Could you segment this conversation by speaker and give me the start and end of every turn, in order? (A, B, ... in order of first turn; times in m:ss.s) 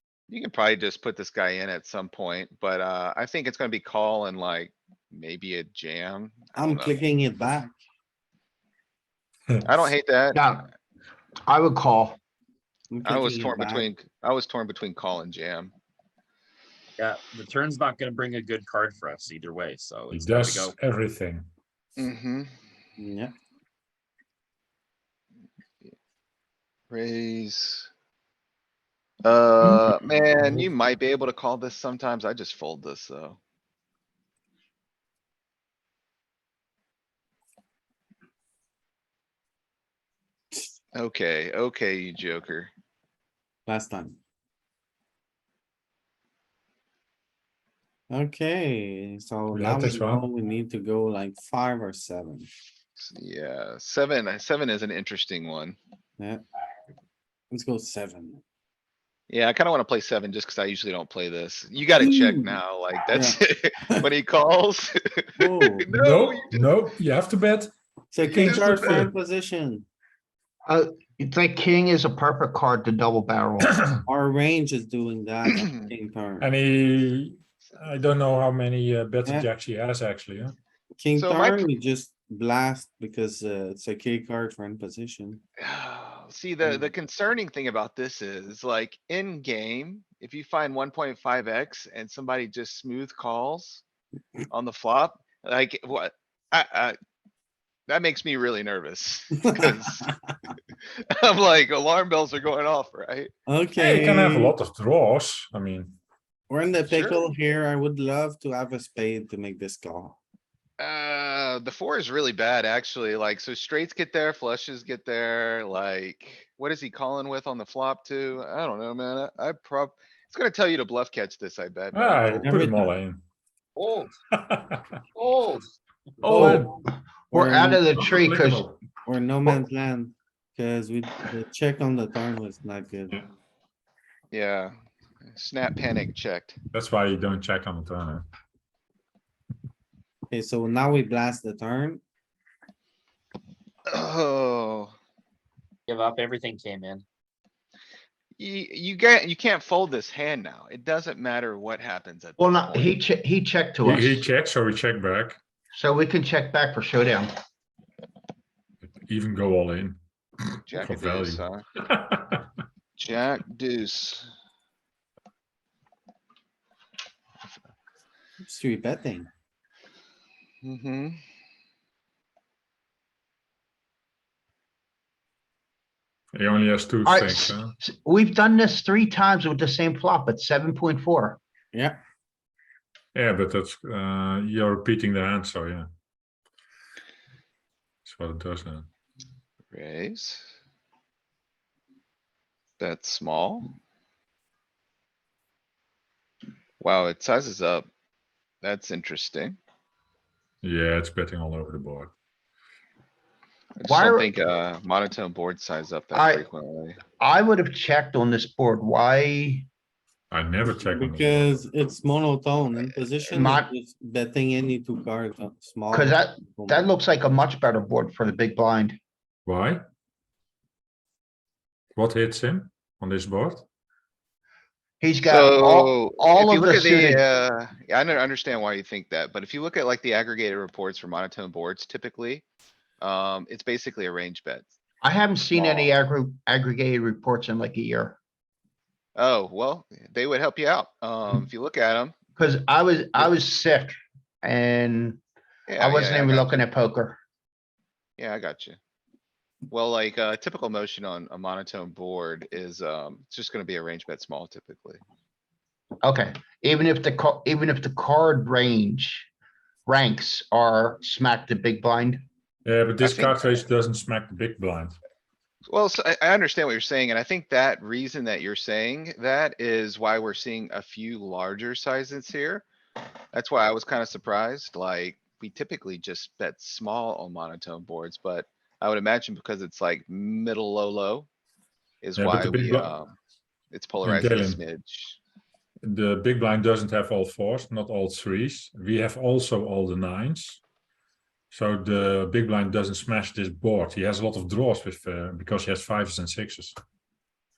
0:00.3-0:07.0 A
0:06.5-0:07.8 B
0:09.6-0:10.6 A
0:10.3-0:10.7 C
0:11.4-0:12.2 C
0:12.9-0:13.9 B
0:13.0-0:15.7 A
0:17.0-0:20.7 D
0:20.1-0:21.5 E
0:22.0-0:22.5 A
0:23.0-0:23.3 B
0:26.9-0:27.9 A
0:29.2-0:33.4 A
0:40.9-0:42.7 A
0:43.7-0:44.2 B
0:48.1-0:52.5 B
0:49.5-0:50.2 E
0:53.0-0:55.8 A
0:57.5-0:58.4 B
0:59.3-1:06.8 A
1:02.0-1:02.6 B
1:03.1-1:03.4 B
1:05.4-1:05.9 B
1:05.9-1:07.7 E
1:08.1-1:09.9 B
1:08.3-1:09.0 A
1:08.3-1:09.1 E
1:10.7-1:13.7 C
1:14.1-1:16.5 B
1:16.4-1:20.6 E
1:21.0-1:25.4 B
1:21.1-1:21.7 A
1:25.6-1:33.8 A
1:34.5-1:36.9 A
1:37.9-1:40.1 A
1:39.6-1:40.1 B
1:41.0-1:43.3 A
1:43.5-1:44.5 B
1:43.8-1:46.0 E
1:46.5-1:50.2 B
1:46.9-1:47.2 A
1:50.8-2:02.5 A
2:01.9-2:03.2 E
2:02.4-2:02.9 B
2:03.8-2:04.1 D
2:04.3-2:04.8 E
2:05.2-2:05.7 D
2:06.2-2:06.7 E
2:06.3-2:06.7 B
2:07.3-2:07.9 B
2:07.3-2:08.6 C
2:08.0-2:08.8 E
2:09.0-2:13.3 B
2:14.3-2:14.7 A
2:15.3-2:16.6 A
2:16.7-2:18.2 E
2:20.3-2:22.0 B
2:23.9-2:24.9 A
2:25.9-2:27.0 D
2:28.4-2:33.0 A
2:32.4-2:34.2 C
2:33.8-2:35.4 E
2:35.7-2:37.3 C
2:38.8-2:40.0 E
2:40.5-2:42.4 E
2:40.7-2:41.6 A
2:43.0-2:44.3 A
2:48.4-2:49.3 B
2:50.6-2:51.2 A
2:56.3-2:57.7 E
2:57.0-3:01.4 C
3:01.7-3:02.0 B
3:03.1-3:05.8 E
3:08.0-3:08.9 E
3:09.7-3:10.4 A
3:12.8-3:13.7 A
3:16.8-3:17.9 A
3:18.6-3:19.6 A
3:20.6-3:22.1 E
3:23.8-3:27.0 A
3:23.8-3:24.3 C
3:26.1-3:26.4 C
3:27.2-3:29.6 C
3:30.3-3:31.6 E
3:30.6-3:36.9 B
3:33.3-3:33.7 C
3:35.9-3:39.0 C
3:39.4-3:39.8 E
3:41.9-3:43.6 E
3:45.0-3:47.2 C
3:45.2-3:52.4 A
3:53.0-3:54.7 A
3:55.0-3:58.2 C
3:55.5-3:56.0 A
3:59.2-4:02.1 A
4:02.4-4:05.2 C
4:05.7-4:06.6 A
4:05.8-4:07.2 C
4:08.2-4:08.8 A
4:09.7-4:15.0 A
4:16.0-4:19.3 C
4:19.8-4:22.2 C
4:22.6-4:25.0 E
4:23.0-4:23.5 A
4:25.7-4:32.6 A
4:33.3-4:41.3 A
4:42.0-4:43.1 A
4:42.2-4:42.9 E
4:43.7-4:45.2 A
4:44.0-4:44.6 E
4:45.9-4:50.6 E
4:51.5-4:56.7 E